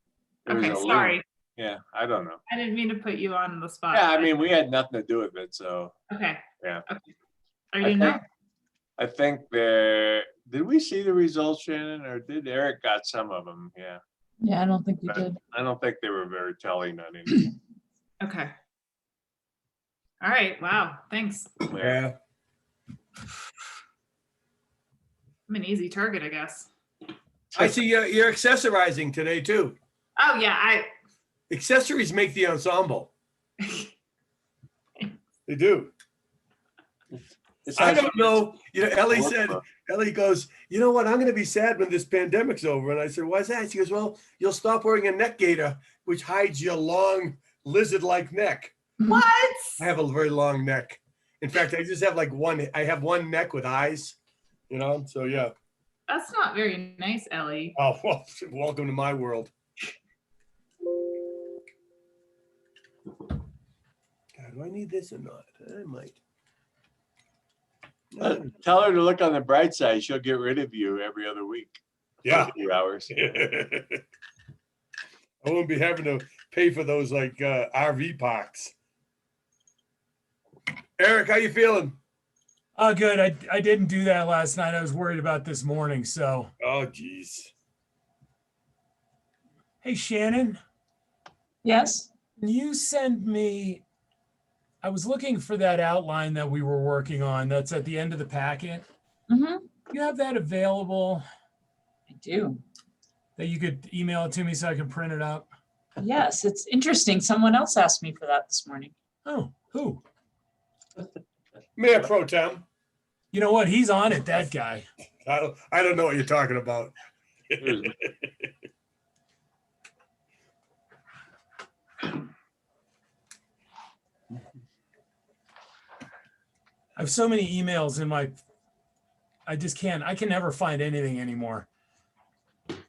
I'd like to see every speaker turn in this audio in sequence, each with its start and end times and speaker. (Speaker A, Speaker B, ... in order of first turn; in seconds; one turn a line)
Speaker A: 0.5-1.2
Speaker B: 0.5-2.4
Speaker A: 2.5-4.4
Speaker B: 3.9-5.9
Speaker A: 6.1-7.1
Speaker A: 7.7-8.2
Speaker B: 7.8-8.2
Speaker B: 9.0-14.0
Speaker C: 14.4-15.4
Speaker B: 15.0-17.5
Speaker A: 18.2-18.5
Speaker A: 20.2-21.5
Speaker B: 21.7-22.0
Speaker D: 21.8-22.1
Speaker A: 25.5-26.7
Speaker D: 27.6-29.8
Speaker A: 30.2-30.9
Speaker D: 31.5-33.1
Speaker A: 33.6-33.9
Speaker D: 35.5-35.9
Speaker B: 37.7-38.5
Speaker D: 37.7-48.7
Speaker B: 39.1-39.6
Speaker A: 49.0-49.8
Speaker D: 49.8-54.2
Speaker D: 54.7-55.5
Speaker A: 56.1-57.7
Speaker D: 57.8-59.5
Speaker D: 64.3-66.2
Speaker D: 68.1-68.5
Speaker B: 68.2-71.8
Speaker D: 72.2-72.5
Speaker B: 72.3-73.1
Speaker D: 73.1-74.0
Speaker D: 75.4-78.7
Speaker D: 81.0-82.0
Speaker E: 82.8-86.5
Speaker D: 86.6-87.5
Speaker E: 89.8-90.6
Speaker C: 91.6-92.1
Speaker E: 92.4-93.8
Speaker E: 94.8-98.8
Speaker C: 99.3-99.7
Speaker E: 99.9-101.2
Speaker C: 102.1-102.6
Speaker E: 103.4-105.5
Speaker C: 106.0-108.9
Speaker E: 109.2-110.0
Speaker D: 111.8-112.6
Speaker E: 113.3-114.8
Speaker D: 115.2-116.9
Speaker D: 117.5-118.5
Speaker E: 127.0-128.4
Speaker E: 129.5-131.7